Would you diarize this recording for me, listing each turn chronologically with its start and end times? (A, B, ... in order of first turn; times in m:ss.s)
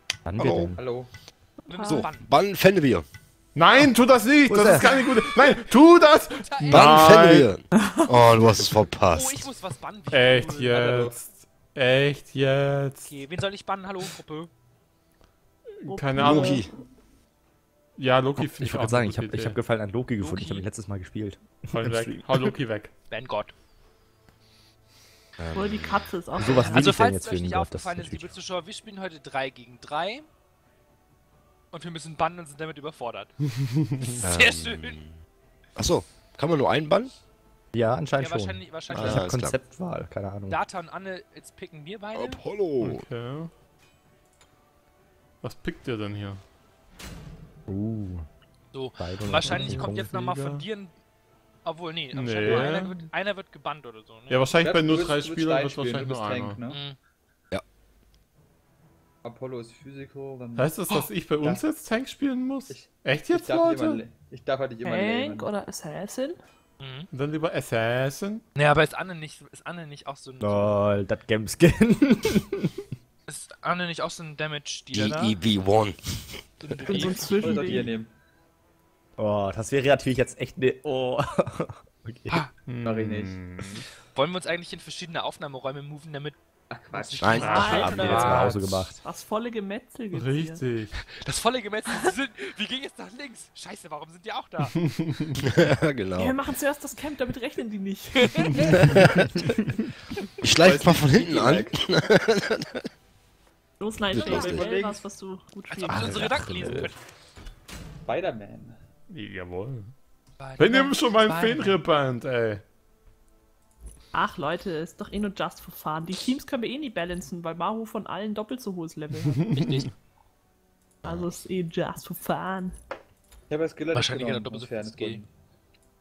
0:00.2-0:00.8 A
0:00.4-0:00.7 B
0:00.8-0:01.1 C
0:01.6-0:02.1 D
0:01.7-0:02.2 E
0:01.8-0:03.0 B
0:03.5-0:07.5 F
0:04.4-0:04.9 A
0:06.4-0:07.0 E
0:06.7-0:09.5 B
0:07.7-0:08.1 D
0:09.1-0:10.7 E
0:10.1-0:13.1 F
0:10.5-0:11.2 C
0:13.0-0:14.5 E
0:15.8-0:16.6 F
0:15.9-0:16.7 D
0:16.1-0:16.7 B
0:18.0-0:19.6 F
0:18.4-0:22.5 A
0:20.2-0:20.7 E
0:21.7-0:22.9 F
0:23.1-0:23.5 E
0:25.4-0:26.1 B
0:25.5-0:26.9 D
0:26.4-0:28.3 A
0:26.7-0:30.3 E
0:31.7-0:33.3 E
0:33.6-0:34.1 F
0:34.1-0:35.0 E
0:34.2-0:35.1 B
0:35.8-0:37.1 B
0:37.7-0:40.6 A
0:38.2-0:39.3 E
0:38.9-0:39.6 B
0:40.5-0:42.4 E
0:42.1-0:43.1 B
0:42.8-0:43.5 F
0:45.4-0:46.4 F
0:47.7-0:48.2 A
0:48.7-0:50.9 E
0:49.0-0:50.2 A
0:49.4-0:50.6 F
0:51.6-0:54.4 E
0:52.1-0:53.0 F
0:54.3-0:56.6 F
0:54.6-0:56.8 C
0:56.7-0:57.0 E
0:59.2-1:00.7 C
1:00.6-1:04.0 F
1:02.7-1:05.5 C
1:04.8-1:06.4 D
1:06.8-1:07.1 E
1:07.1-1:08.4 F
1:08.5-1:10.8 E
1:10.4-1:12.8 A
1:13.3-1:15.3 E
1:14.9-1:16.4 B
1:16.6-1:17.8 E
1:16.9-1:17.9 D
1:16.9-1:18.1 C
1:19.2-1:22.4 A
1:22.7-1:23.8 F
1:22.8-1:23.4 C
1:24.1-1:26.4 E
1:26.7-1:27.6 C
1:26.9-1:28.7 E
1:27.2-1:27.6 B
1:27.4-1:28.9 F
1:27.5-1:28.4 D
1:27.5-1:29.0 A
1:29.0-1:30.6 D
1:30.1-1:30.9 F
1:31.0-1:34.8 E
1:34.8-1:35.4 F
1:35.4-1:36.3 B
1:36.2-1:39.2 D
1:38.8-1:39.1 B
1:40.4-1:42.9 B
1:40.5-1:41.7 C
1:43.8-1:46.5 D
1:44.1-1:44.7 B
1:44.2-1:45.0 C
1:45.7-1:47.0 E
1:45.9-1:46.9 A
1:48.0-1:48.7 C
1:49.1-1:49.9 F
1:50.4-1:51.8 E
1:50.6-1:52.6 F
1:54.1-1:59.5 D
1:59.3-1:59.8 F
1:59.5-1:59.9 E
2:01.0-2:02.7 D
2:03.5-2:05.3 C
2:03.9-2:05.2 E